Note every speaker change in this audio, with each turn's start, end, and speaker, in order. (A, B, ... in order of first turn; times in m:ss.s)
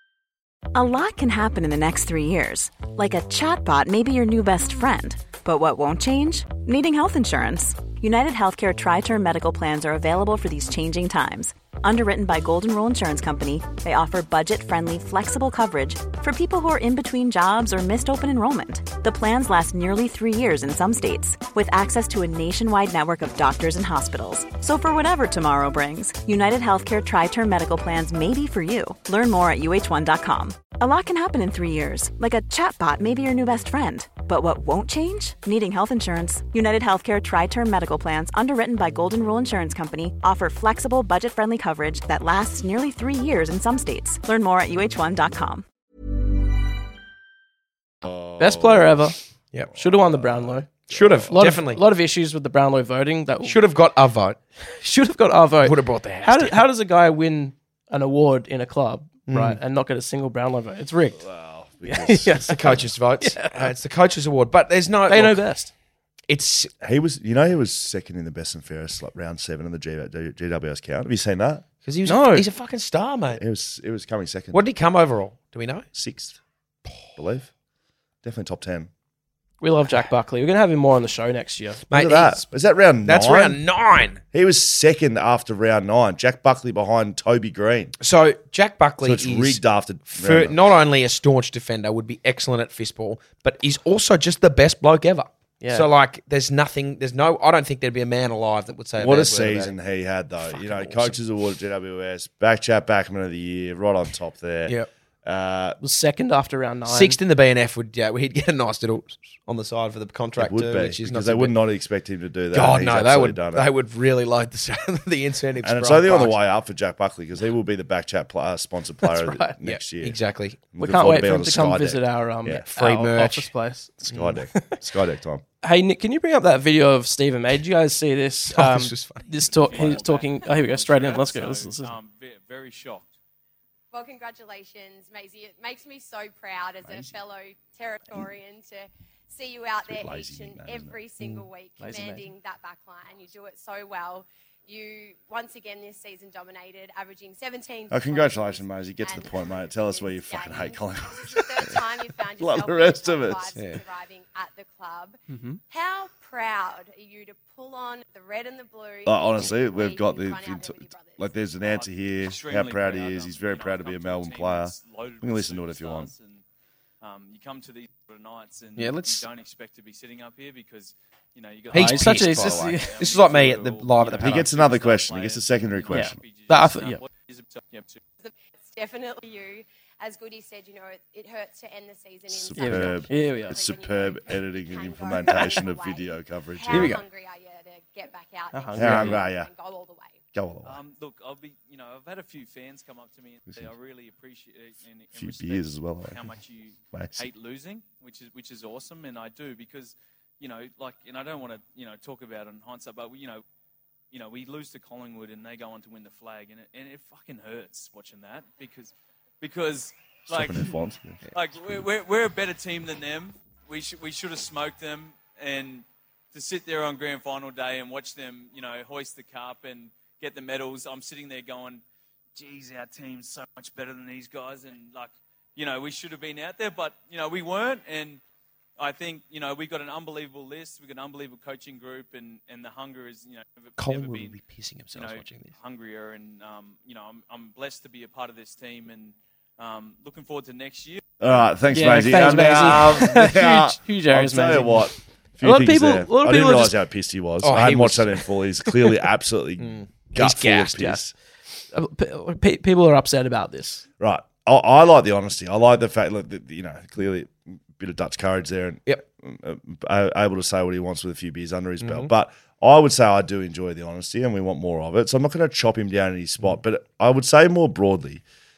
0:00.7-0:45.6 A
0:48.0-0:49.1 B
0:48.4-0:49.2 C
0:49.7-0:51.4 B
0:49.7-0:50.8 C
0:50.9-0:51.8 D
0:51.3-0:53.6 C
0:53.4-0:54.4 D
0:54.8-1:01.2 C
0:55.6-0:56.6 D
0:59.3-0:59.6 D
1:01.2-1:02.9 B
1:01.8-1:03.7 C
1:02.5-1:05.4 D
1:05.1-1:05.7 C
1:06.3-1:06.7 D
1:06.8-1:11.6 B
1:11.8-1:13.4 D
1:12.0-1:12.4 C
1:13.3-1:14.6 B
1:14.5-1:15.8 D
1:15.9-1:16.4 B
1:17.2-1:17.5 B
1:18.2-1:18.9 B
1:19.6-1:21.8 C
1:21.9-1:22.4 D
1:21.9-1:23.6 B
1:23.0-1:24.2 D
1:24.3-1:27.9 B
1:28.0-1:39.7 D
1:29.0-1:30.6 B
1:35.6-1:35.9 C
1:39.0-1:45.8 B
1:45.8-1:47.2 C
1:46.9-1:51.5 D
1:50.4-1:53.7 B
1:52.5-1:56.3 D
1:55.6-2:00.2 B
1:59.0-1:59.6 C
1:59.6-2:00.6 D
2:00.7-2:02.6 B
2:00.8-2:04.0 C
2:02.7-2:03.5 D
2:04.0-2:05.4 B
2:05.6-2:12.0 C
2:08.5-2:09.9 D
2:09.5-2:13.1 E
2:13.9-2:35.2 F
2:19.8-2:21.0 B
2:21.8-2:22.3 C
2:27.9-2:31.8 B
2:32.4-2:33.6 B
2:33.6-2:33.8 D
2:35.7-2:41.3 F
2:39.0-2:46.1 B
2:41.6-2:46.4 E
2:47.0-2:58.0 E
2:48.8-2:49.3 D
2:51.7-2:52.9 C
2:51.7-2:54.5 D
2:54.2-2:56.2 B
2:55.9-2:57.0 C
2:58.2-3:10.2 F
3:02.3-3:07.0 B
3:02.5-3:03.6 C
3:06.7-3:07.0 D
3:08.5-3:09.2 C
3:08.8-3:09.5 B
3:10.3-3:10.8 B
3:10.6-3:23.4 E
3:15.2-3:16.3 B
3:16.9-3:17.2 B
3:24.1-3:30.7 E
3:30.2-3:31.2 B
3:31.3-3:41.8 E
3:42.3-3:48.2 E
3:48.8-3:54.4 E
3:53.8-3:55.5 D
3:54.9-4:01.0 E
4:01.2-4:11.1 B
4:01.7-4:04.9 C
4:05.4-4:06.8 C
4:07.4-4:08.2 D
4:09.6-4:11.0 D
4:11.7-4:13.8 C
4:14.0-4:28.2 B
4:21.8-4:22.1 D